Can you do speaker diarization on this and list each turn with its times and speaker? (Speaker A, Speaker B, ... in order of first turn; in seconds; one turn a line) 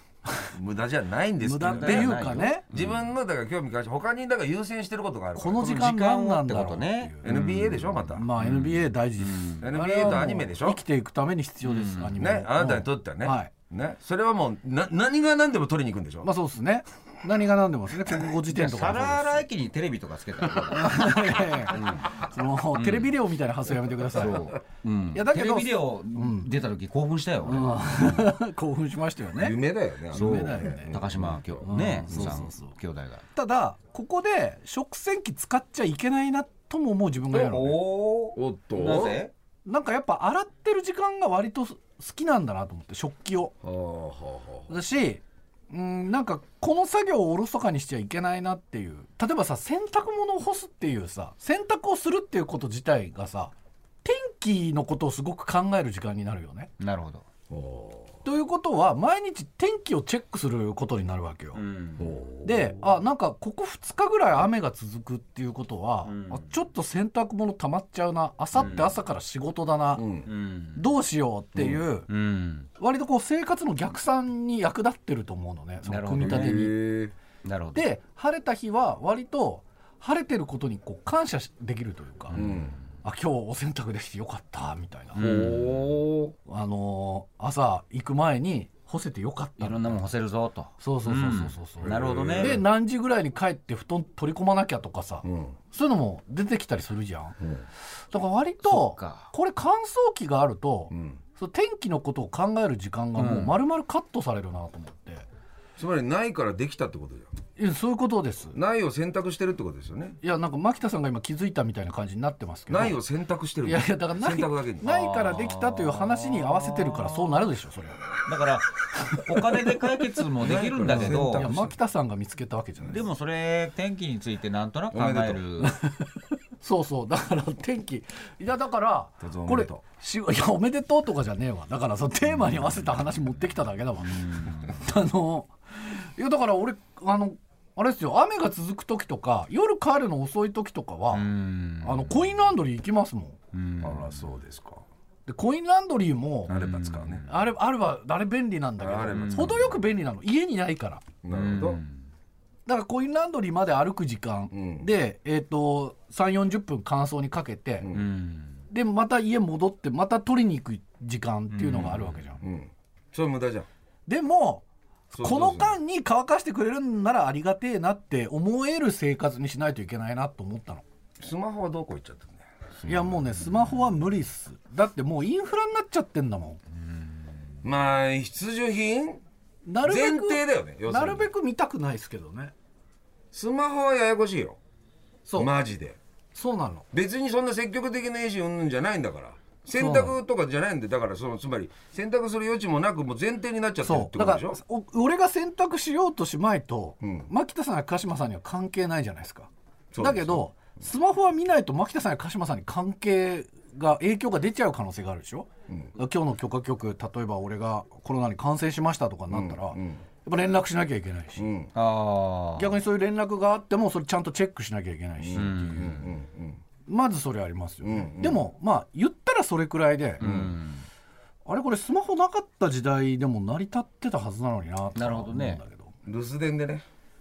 Speaker A: 0.5-5.7
Speaker B: 1.4-2.6
Speaker C: 1.6-3.1
Speaker B: 5.3-7.2
Speaker C: 5.6-10.3
Speaker A: 7.2-8.2
Speaker B: 8.1-13.5
Speaker A: 9.6-10.8
Speaker C: 11.6-12.2
Speaker A: 12.2-16.3
Speaker B: 16.2-19.4
Speaker C: 18.5-22.2
Speaker B: 20.7-24.4
Speaker C: 22.7-23.2
Speaker C: 24.0-27.7
Speaker B: 25.1-26.5
Speaker B: 27.4-29.6
Speaker A: 27.9-28.3
Speaker A: 29.3-32.4
Speaker B: 30.1-31.0
Speaker C: 30.1-33.2
Speaker B: 31.6-32.7
Speaker B: 33.3-37.8
Speaker C: 37.3-39.3
Speaker A: 38.4-39.2
Speaker B: 39.6-43.5
Speaker A: 43.6-44.8
Speaker B: 44.7-53.5
Speaker B: 54.0-56.7
Speaker C: 56.8-57.2
Speaker A: 57.5-58.2
Speaker B: 58.2-61.6
Speaker C: 61.5-62.1
Speaker A: 62.0-62.9
Speaker B: 62.4-70.0
Speaker C: 66.0-66.5
Speaker C: 68.5-69.0
Speaker A: 69.9-70.3
Speaker C: 70.2-70.9
Speaker B: 70.7-72.1
Speaker C: 71.5-72.7
Speaker B: 72.8-76.8
Speaker C: 75.8-76.6
Speaker A: 76.2-77.1
Speaker C: 77.4-77.9
Speaker B: 77.7-82.4
Speaker C: 82.3-82.7
Speaker A: 82.3-82.8
Speaker B: 83.0-85.2
Speaker C: 85.1-85.7
Speaker A: 85.2-86.3
Speaker B: 86.5-90.1
Speaker C: 89.6-92.6
Speaker B: 90.8-97.4
Speaker A: 91.8-92.6
Speaker A: 95.2-95.6
Speaker A: 97.4-97.6
Speaker B: 98.1-105.3
Speaker C: 98.6-99.3
Speaker A: 100.9-101.2
Speaker C: 103.2-103.5
Speaker A: 105.8-107.3
Speaker B: 107.6-108.6
Speaker A: 108.5-110.2
Speaker B: 110.2-113.0
Speaker A: 112.7-115.0
Speaker B: 113.6-118.1
Speaker C: 114.9-117.4
Speaker C: 118.2-121.5
Speaker B: 118.8-119.2
Speaker A: 120.4-121.8
Speaker B: 120.8-123.1
Speaker C: 122.8-125.8
Speaker A: 124.9-125.4
Speaker B: 125.6-141.3
Speaker A: 129.2-129.8
Speaker C: 134.0-134.8
Speaker C: 141.1-142.4
Speaker B: 141.8-143.4
Speaker C: 143.5-144.2
Speaker A: 143.8-144.8
Speaker B: 145.2-146.5
Speaker A: 146.5-147.2
Speaker C: 146.5-147.5
Speaker B: 147.3-151.1
Speaker A: 148.8-149.8
Speaker C: 149.1-149.6
Speaker A: 151.2-151.8
Speaker C: 151.3-152.0
Speaker B: 152.7-157.9
Speaker A: 154.5-154.9
Speaker A: 157.8-158.1
Speaker C: 157.9-158.6
Speaker B: 158.7-162.4
Speaker C: 161.5-162.2
Speaker A: 162.4-163.7
Speaker B: 164.1-170.8
Speaker A: 165.1-165.8
Speaker A: 171.2-172.7
Speaker B: 172.8-176.6
Speaker A: 177.6-179.2
Speaker B: 179.6-182.5
Speaker A: 179.8-181.3
Speaker A: 183.3-184.6
Speaker B: 185.2-185.5
Speaker A: 185.3-186.0
Speaker B: 186.3-186.8
Speaker A: 186.9-194.6
Speaker B: 189.8-190.1
Speaker B: 193.8-211.5
Speaker A: 197.0-197.3
Speaker A: 199.9-200.5
Speaker A: 209.3-210.0
Speaker A: 211.4-211.7
Speaker C: 211.7-212.8
Speaker B: 212.6-216.0
Speaker A: 215.2-216.6
Speaker C: 215.3-216.1
Speaker B: 216.8-220.2
Speaker A: 217.8-218.4
Speaker C: 220.2-220.8
Speaker A: 220.2-220.6
Speaker B: 221.4-225.9
Speaker C: 224.9-225.6
Speaker A: 226.0-226.8